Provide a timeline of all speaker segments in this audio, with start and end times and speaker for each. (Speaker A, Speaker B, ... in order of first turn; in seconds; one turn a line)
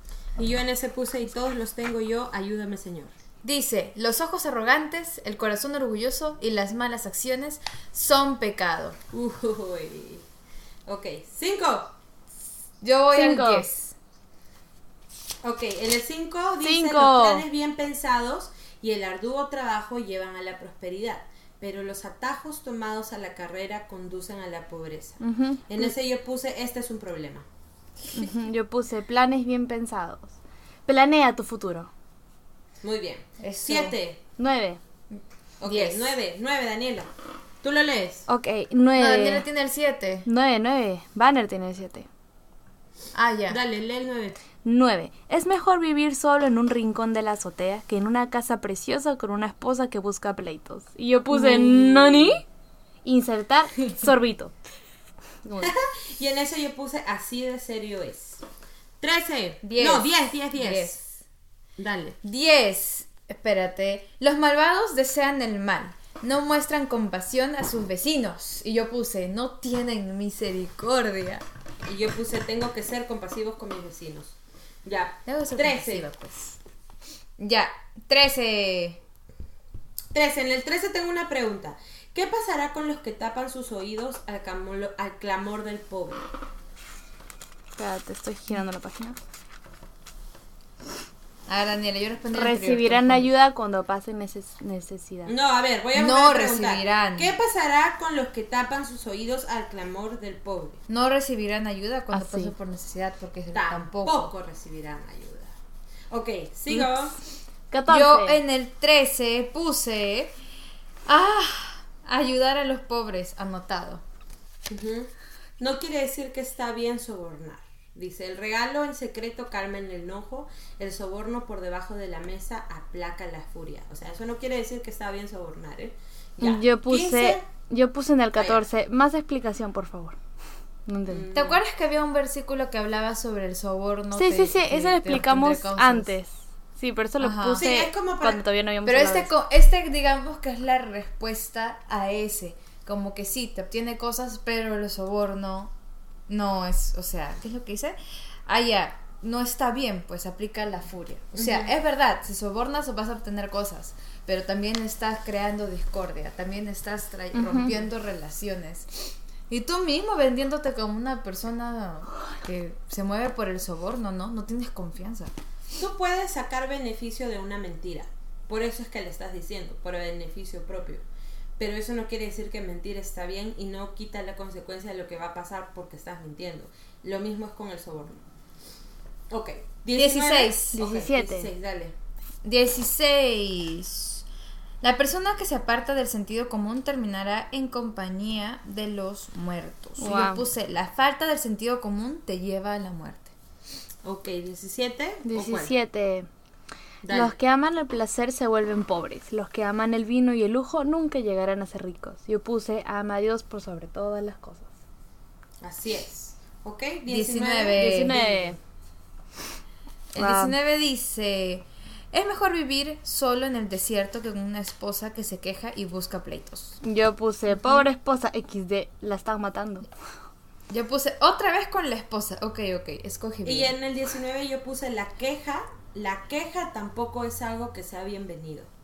Speaker A: 0.4-3.1
Speaker B: 3.4-9.0
Speaker A: 9.1-10.2
Speaker A: 10.9-11.9
Speaker B: 12.8-13.9
Speaker C: 13.1-13.7
Speaker A: 15.4-27.4
Speaker C: 16.6-17.4
Speaker C: 25.2-25.6
Speaker C: 28.1-30.3
Speaker C: 30.9-31.9
Speaker A: 32.8-34.2
Speaker B: 33.4-34.0
Speaker C: 34.4-34.8
Speaker B: 35.1-36.2
Speaker A: 35.6-37.1
Speaker A: 37.6-38.2
Speaker C: 38.3-39.4
Speaker B: 39.0-40.2
Speaker C: 40.2-42.1
Speaker B: 43.1-43.6
Speaker A: 43.5-44.4
Speaker C: 44.6-52.4
Speaker A: 51.3-52.4
Speaker C: 53.0-54.5
Speaker C: 55.4-55.7
Speaker A: 55.6-58.4
Speaker A: 59.0-61.0
Speaker B: 59.6-61.2
Speaker A: 61.8-62.2
Speaker B: 62.2-71.4
Speaker A: 71.8-76.1
Speaker B: 75.3-76.6
Speaker B: 77.4-79.0
Speaker A: 80.1-86.3
Speaker C: 87.8-89.2
Speaker B: 91.5-93.3
Speaker C: 92.3-95.3
Speaker A: 95.2-100.8
Speaker B: 95.9-97.3
Speaker B: 100.9-104.3
Speaker C: 102.1-102.5
Speaker A: 103.5-105.5
Speaker A: 106.1-107.1
Speaker C: 107.7-108.4
Speaker B: 107.9-110.3
Speaker B: 111.1-114.0
Speaker A: 114.7-127.4
Speaker C: 126.4-130.2
Speaker A: 128.4-128.7
Speaker C: 130.8-131.3
Speaker A: 131.1-131.6
Speaker B: 131.3-136.2
Speaker C: 134.1-139.3
Speaker B: 137.2-137.7
Speaker A: 137.5-138.4
Speaker B: 138.8-145.7
Speaker B: 146.3-165.3
Speaker A: 151.3-151.8
Speaker C: 157.3-157.7
Speaker A: 165.8-171.0
Speaker A: 171.6-178.2
Speaker A: 179.3-181.9
Speaker B: 179.9-180.8
Speaker C: 180.7-181.5
Speaker B: 182.4-184.2
Speaker B: 184.8-193.3
Speaker C: 190.0-190.5
Speaker A: 194.0-195.7
Speaker C: 195.3-196.3
Speaker A: 197.0-197.3
Speaker C: 197.1-204.7
Speaker A: 205.6-208.6
Speaker B: 207.1-208.2
Speaker C: 207.7-208.6
Speaker B: 210.1-216.8
Speaker C: 210.2-210.6
Speaker C: 216.8-219.9
Speaker A: 217.6-217.9
Speaker B: 220.7-223.7
Speaker A: 223.4-228.7